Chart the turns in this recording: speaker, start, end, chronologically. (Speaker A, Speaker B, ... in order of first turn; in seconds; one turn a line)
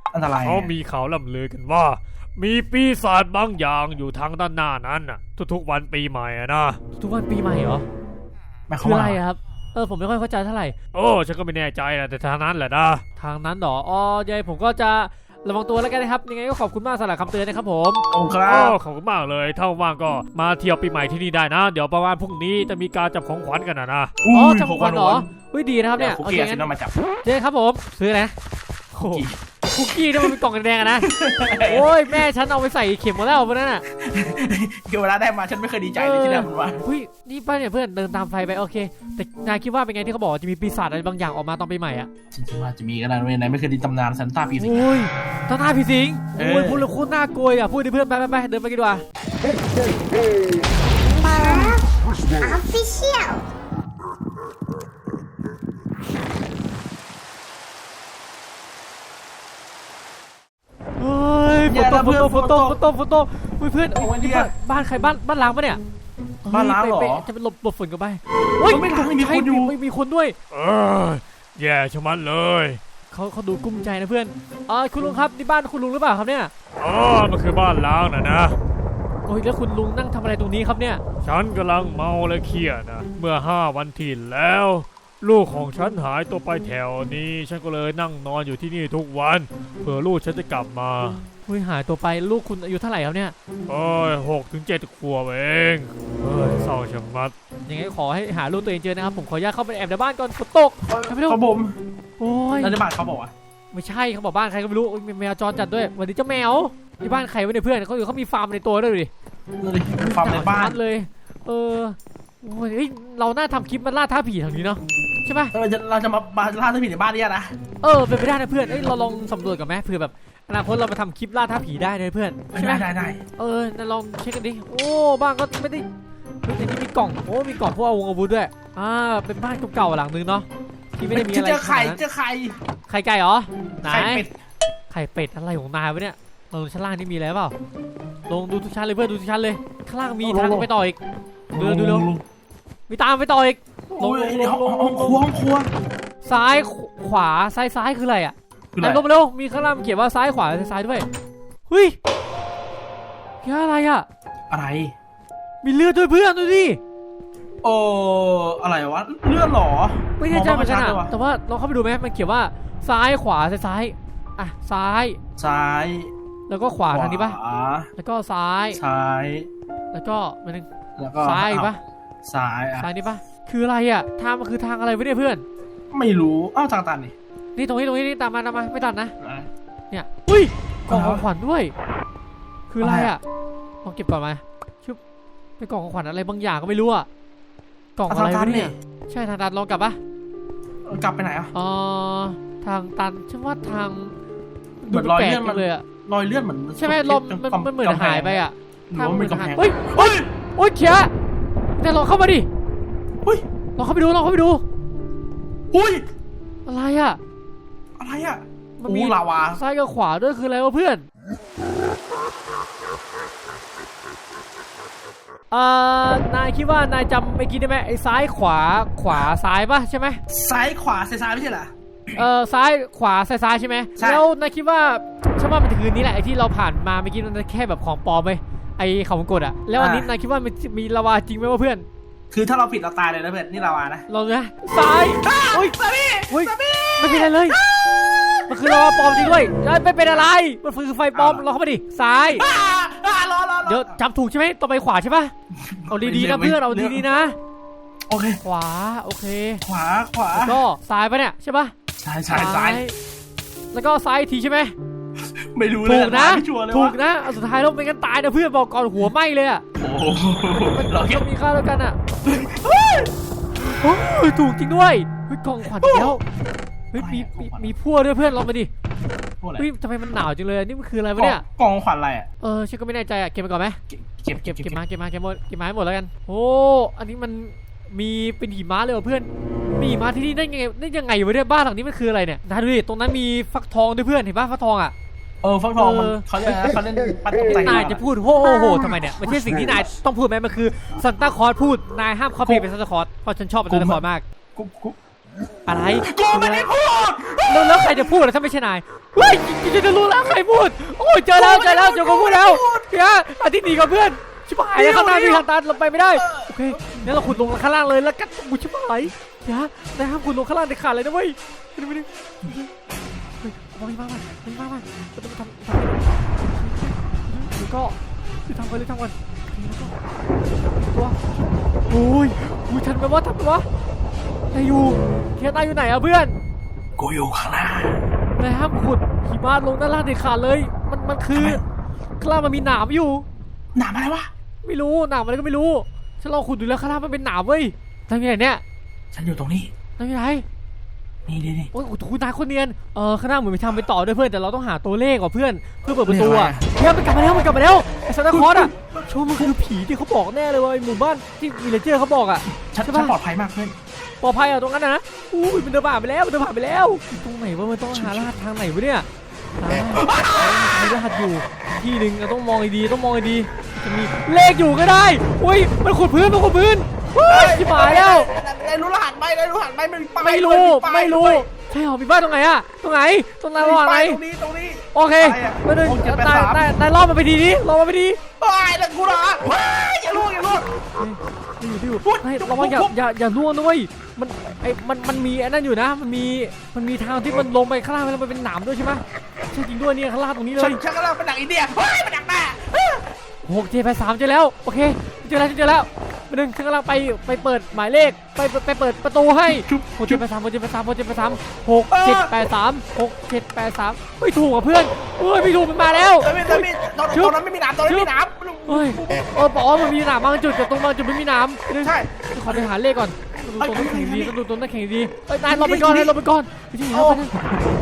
Speaker A: 0.1-0.7
Speaker B: 0.4-6.8
Speaker C: 7.0-7.8
Speaker A: 8.7-9.2
Speaker C: 8.8-10.8
Speaker B: 10.9-13.0
Speaker C: 13.2-18.0
Speaker A: 18.1-18.8
Speaker B: 18.4-24.1
Speaker A: 24.2-25.3
Speaker C: 24.3-26.7
Speaker A: 26.0-26.9
Speaker C: 27.2-28.3
Speaker C: 28.9-31.1
Speaker A: 29.0-29.4
Speaker A: 31.0-32.0
Speaker C: 31.6-33.8
Speaker A: 33.9-36.8
Speaker C: 36.0-42.1
Speaker A: 42.3-45.0
Speaker C: 44.6-49.0
Speaker A: 46.4-46.9
Speaker D: 51.0-51.9
Speaker D: 52.4-53.5
Speaker C: 61.0-65.8
Speaker A: 61.7-62.8
Speaker A: 63.9-64.5
Speaker C: 66.4-70.4
Speaker A: 66.5-67.3
Speaker A: 68.6-69.8
Speaker B: 70.5-72.8
Speaker C: 73.1-76.5
Speaker B: 76.8-78.6
Speaker C: 79.2-81.0
Speaker B: 81.2-91.2
Speaker C: 91.5-93.3
Speaker B: 93.7-97.3
Speaker C: 97.7-101.4
Speaker A: 100.9-101.8
Speaker C: 102.2-102.8
Speaker A: 102.6-103.3
Speaker C: 103.7-109.1
Speaker A: 109.6-110.8
Speaker C: 110.0-115.5
Speaker A: 115.5-117.5
Speaker C: 117.8-125.9
Speaker A: 122.5-123.2
Speaker C: 126.4-132.0
Speaker A: 131.1-132.6
Speaker C: 132.9-134.3
Speaker A: 133.8-134.3
Speaker C: 134.9-137.5
Speaker C: 138.3-141.0
Speaker A: 140.2-140.7
Speaker A: 141.5-142.2
Speaker C: 141.6-142.1
Speaker C: 142.9-145.2
Speaker A: 143.9-145.7
Speaker C: 146.2-151.1
Speaker A: 148.7-149.1
Speaker C: 151.7-152.0
Speaker C: 153.4-154.1
Speaker A: 154.5-154.9
Speaker C: 155.6-156.8
Speaker A: 157.6-161.1
Speaker C: 160.2-165.2
Speaker A: 165.4-166.1
Speaker C: 166.5-167.4
Speaker A: 166.9-167.9
Speaker C: 168.0-168.8
Speaker A: 168.7-169.5
Speaker C: 169.9-170.7
Speaker A: 171.0-171.7
Speaker C: 171.2-171.8
Speaker A: 172.2-172.9
Speaker C: 172.8-175.4
Speaker A: 175.9-177.2
Speaker C: 177.6-179.1
Speaker A: 179.2-179.5
Speaker C: 179.9-181.7
Speaker A: 180.9-181.3
Speaker C: 182.7-183.2
Speaker A: 182.8-183.1
Speaker C: 183.8-185.0
Speaker C: 185.6-187.1
Speaker C: 188.0-190.0
Speaker A: 188.1-188.8
Speaker A: 190.9-191.5
Speaker C: 191.5-194.2
Speaker C: 194.8-195.8
Speaker A: 194.9-200.3
Speaker C: 196.8-201.1
Speaker C: 201.8-202.5
Speaker C: 203.8-204.6
Speaker A: 205.7-206.1
Speaker C: 206.7-207.2
Speaker A: 208.0-209.6
Speaker C: 208.8-211.1
Speaker C: 215.5-220.2
Speaker A: 220.3-222.2
Speaker C: 222.2-231.9
Speaker A: 224.0-224.3
Speaker A: 229.8-230.1
Speaker A: 232.3-234.1
Speaker C: 234.1-235.8
Speaker A: 235.2-238.0
Speaker C: 236.3-237.6
Speaker C: 238.5-242.4
Speaker A: 238.6-239.1
Speaker A: 241.1-241.4
Speaker A: 242.3-244.0
Speaker C: 243.7-245.3
Speaker A: 245.5-247.1
Speaker C: 245.9-247.3
Speaker A: 248.1-248.4
Speaker C: 248.4-249.6
Speaker A: 249.6-250.6
Speaker C: 250.3-251.7
Speaker A: 252.0-252.8
Speaker C: 252.3-253.0
Speaker C: 253.7-254.8
Speaker A: 255.2-257.0
Speaker C: 255.8-259.6
Speaker A: 259.8-261.3
Speaker C: 260.5-262.0
Speaker A: 262.2-263.1
Speaker C: 263.6-266.2
Speaker A: 265.7-266.2
Speaker C: 266.9-268.7
Speaker A: 266.9-267.7
Speaker A: 269.4-269.7
Speaker C: 269.6-271.4
Speaker A: 271.2-272.3
Speaker C: 272.4-273.8
Speaker A: 273.9-274.8
Speaker C: 274.4-284.9
Speaker A: 285.4-288.0
Speaker C: 285.8-286.3
Speaker C: 287.5-294.2
Speaker A: 288.7-289.3
Speaker A: 293.7-294.0
Speaker A: 294.6-295.0
Speaker C: 295.7-296.7
Speaker A: 296.1-298.2
Speaker C: 297.5-312.7
Speaker A: 301.4-302.9
Speaker A: 304.8-305.5
Speaker A: 306.1-307.3
Speaker C: 313.4-319.9
Speaker C: 320.8-321.2
Speaker C: 321.9-323.7
Speaker C: 324.5-326.4
Speaker A: 327.0-328.0
Speaker C: 328.4-331.6
Speaker A: 331.3-331.6
Speaker C: 332.2-333.2
Speaker A: 333.8-334.3
Speaker C: 334.6-338.6
Speaker A: 339.1-339.7
Speaker C: 340.0-340.4
Speaker A: 341.3-341.7
Speaker C: 341.7-353.1
Speaker A: 346.1-346.7
Speaker A: 348.3-349.6
Speaker A: 352.5-353.8
Speaker C: 354.2-359.1
Speaker A: 357.9-358.3
Speaker C: 359.6-368.3
Speaker A: 359.9-360.7
Speaker A: 367.3-371.5
Speaker C: 370.2-374.2
Speaker A: 373.6-376.7
Speaker C: 374.9-378.2
Speaker A: 378.4-380.7
Speaker C: 381.0-390.8
Speaker A: 382.0-382.9
Speaker A: 390.6-393.0
Speaker C: 393.4-408.1
Speaker A: 399.4-400.2
Speaker A: 401.9-402.3
Speaker A: 406.2-409.3
Speaker C: 408.7-417.4
Speaker A: 411.8-412.7
Speaker A: 413.6-414.4
Speaker A: 415.4-416.2
Speaker A: 416.9-417.6